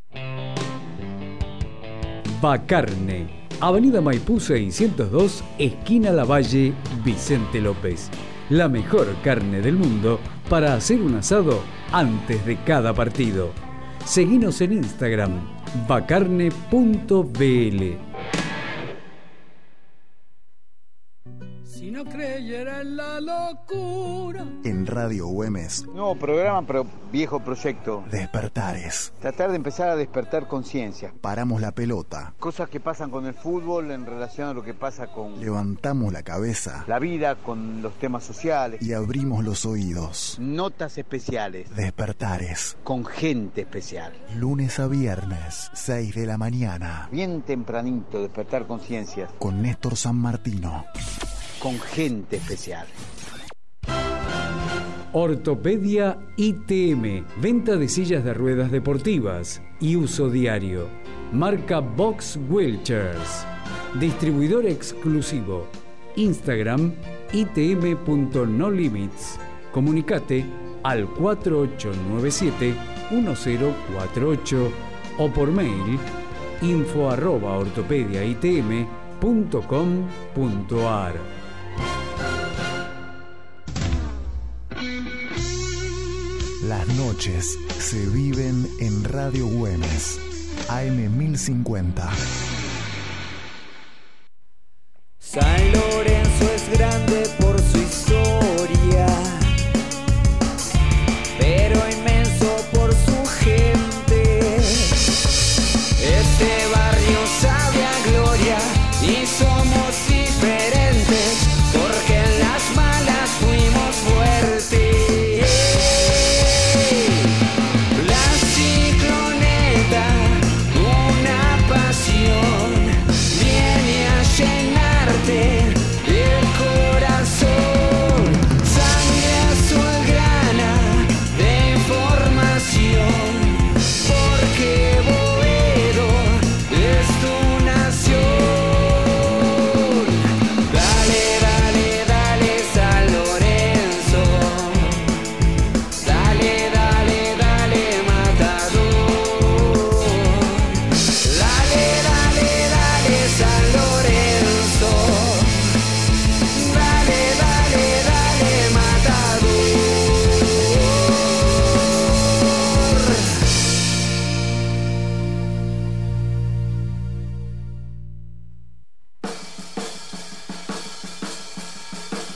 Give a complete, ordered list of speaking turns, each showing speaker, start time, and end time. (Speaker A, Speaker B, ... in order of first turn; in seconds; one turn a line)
Speaker A: 2.3-18.0
Speaker B: 21.7-24.5
Speaker C: 24.6-25.9
Speaker D: 25.9-28.1
Speaker C: 28.1-29.1
Speaker D: 29.2-31.2
Speaker C: 31.2-32.4
Speaker D: 32.4-35.5
Speaker C: 35.4-36.9
Speaker D: 36.9-38.8
Speaker C: 38.8-40.4
Speaker D: 40.4-41.7
Speaker C: 41.7-42.8
Speaker D: 42.8-44.2
Speaker C: 44.3-47.1
Speaker D: 47.1-49.3
Speaker C: 49.4-50.9
Speaker D: 51.6-52.9
Speaker A: 55.1-81.3
Speaker C: 86.6-92.2
Speaker E: 95.2-99.6
Speaker E: 101.4-105.1
Speaker E: 106.0-117.3
Speaker E: 117.9-145.1
Speaker E: 146.0-155.8
Speaker E: 156.5-163.4